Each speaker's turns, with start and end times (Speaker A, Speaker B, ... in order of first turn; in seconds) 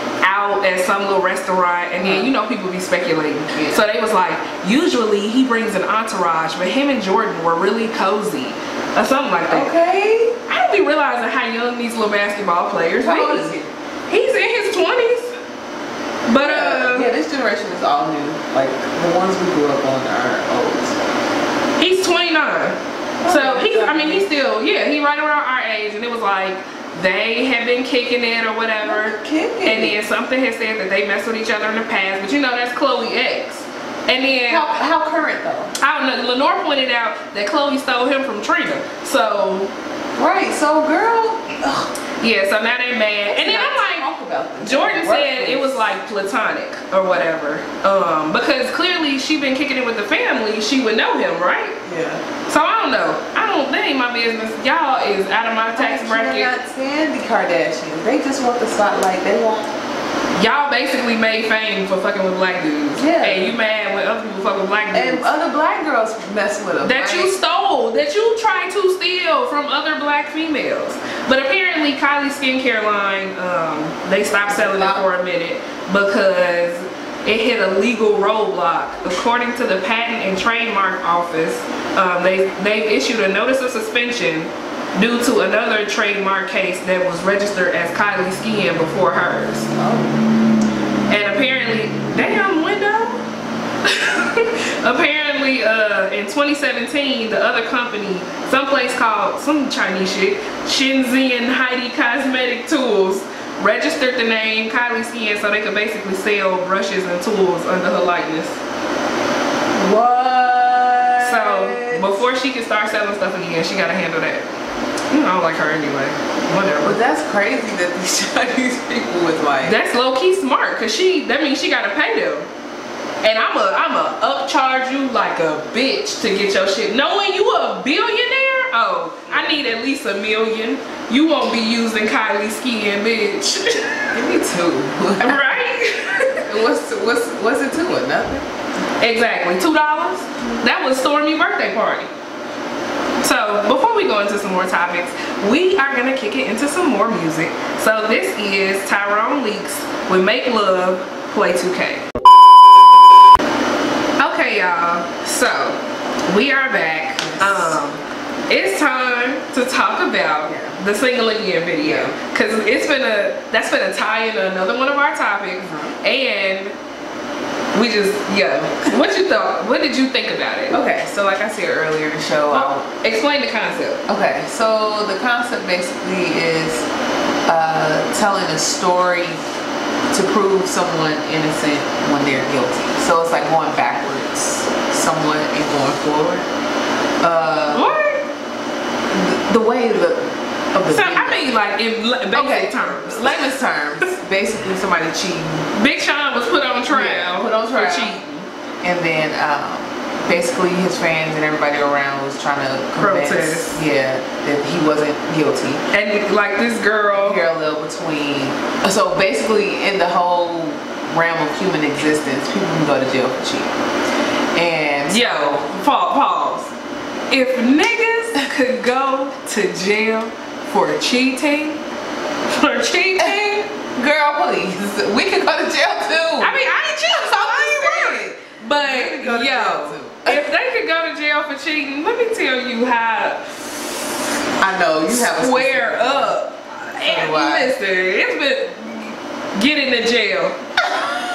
Speaker A: 0.2-9.7, 10.5-13.6, 14.1-15.3, 16.2-17.1, 21.8-34.8, 35.8-39.7, 42.2-44.1, 44.6-51.8, 52.5-56.5, 60.4-65.3, 66.8-89.7, 91.1-93.2, 93.8-108.6, 111.2-114.5, 115.1-117.0, 119.6-122.5, 123.2-134.0, 135.2-136.4, 139.0-142.1, 143.2-152.1, 154.2-166.7, 167.7-170.8, 172.5-174.0, 187.7-188.2, 190.9-193.5, 195.7-198.5, 203.0-203.8, 205.9-207.4, 215.1-216.7, 217.3-221.8, 222.5-223.4, 226.4-233.7, 235.1-240.6
Speaker B: 2.0-2.3, 3.5-3.8, 9.5-10.3, 13.0-13.7, 16.3-21.0, 23.2-24.3, 28.8-30.0, 34.5-35.7, 40.1-41.9, 43.3-45.9, 51.8-52.2, 55.8-59.7, 63.0-63.5, 64.9-67.3, 74.5-75.0, 89.7-90.2, 109.7-112.2, 116.8-119.8, 129.3-129.6, 134.1-135.5, 136.4-138.5, 157.2-157.8, 160.5-160.8, 161.8-162.1, 165.6-165.9, 170.7-172.8, 174.1-176.8, 177.4-179.4, 180.1-186.5, 187.2-187.9, 189.1-191.5, 192.3-195.7, 196.9-198.2, 198.8-205.8, 207.1-213.8, 214.5-215.7, 223.2-230.4, 234.6-236.3, 237.0-237.7